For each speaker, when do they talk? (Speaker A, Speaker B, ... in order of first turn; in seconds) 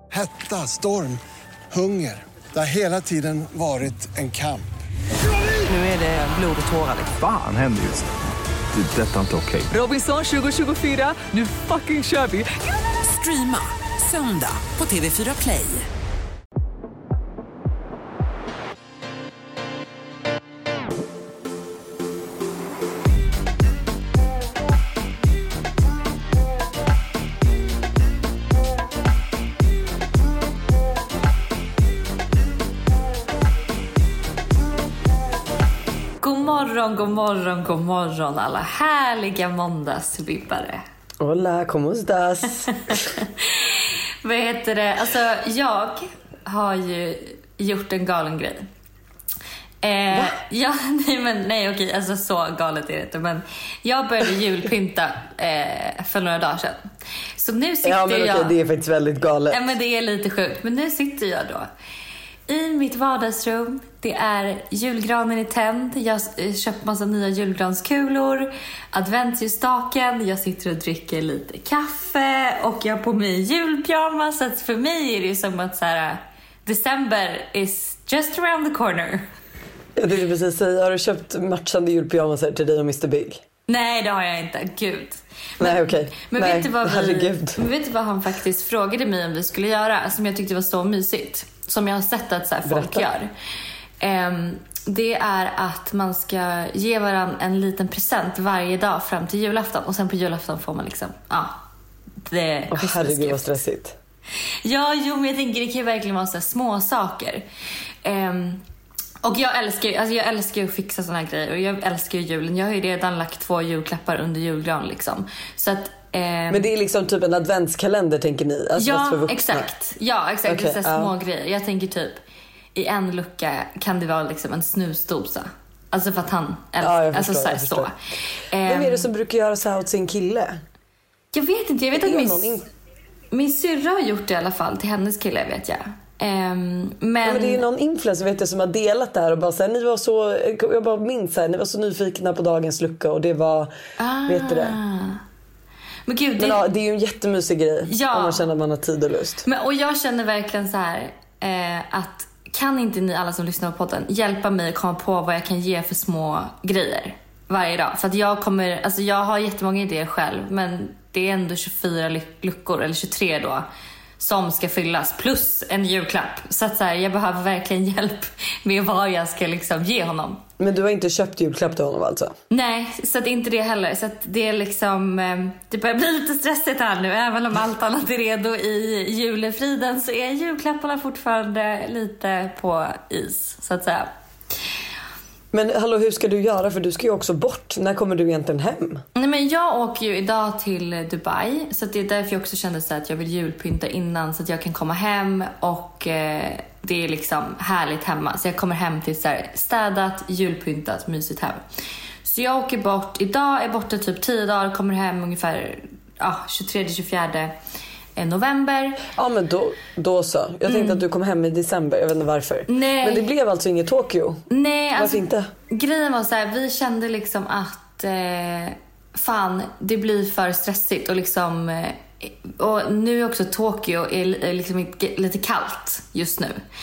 Speaker A: 0.1-1.2, 1.7-4.7
Speaker B: 5.7-7.1, 9.7-15.9
Speaker C: 7.2-8.1, 8.7-9.7
Speaker D: 36.2-40.8, 42.9-48.7, 49.8-56.8, 57.4-58.6, 59.5-61.7, 62.5-79.2, 83.7-93.3, 94.0-101.6, 102.2-103.5, 104.6-107.4, 108.0-108.6, 109.2-116.6, 118.8-122.2, 122.7-127.9, 128.5-129.1, 131.3-132.5, 133.3-137.6, 144.0-145.2, 146.1-146.7, 147.9-148.4, 149.4-163.6, 164.2-170.4, 172.5-184.1, 189.1-201.6, 202.2-207.5, 208.2-209.0, 210.7-211.0, 212.7-213.2, 214.5-226.6
Speaker E: 41.2-43.0, 57.8-59.6, 80.0-83.4, 85.6-87.6, 92.6-93.0, 102.7-104.0, 116.5-119.7, 120.4-121.1, 126.8-127.9, 128.6-130.6, 132.0-132.7, 137.2-143.7, 144.3-144.8, 146.4-149.4, 170.6-172.4, 185.5-189.0, 209.1-214.4, 214.9-215.5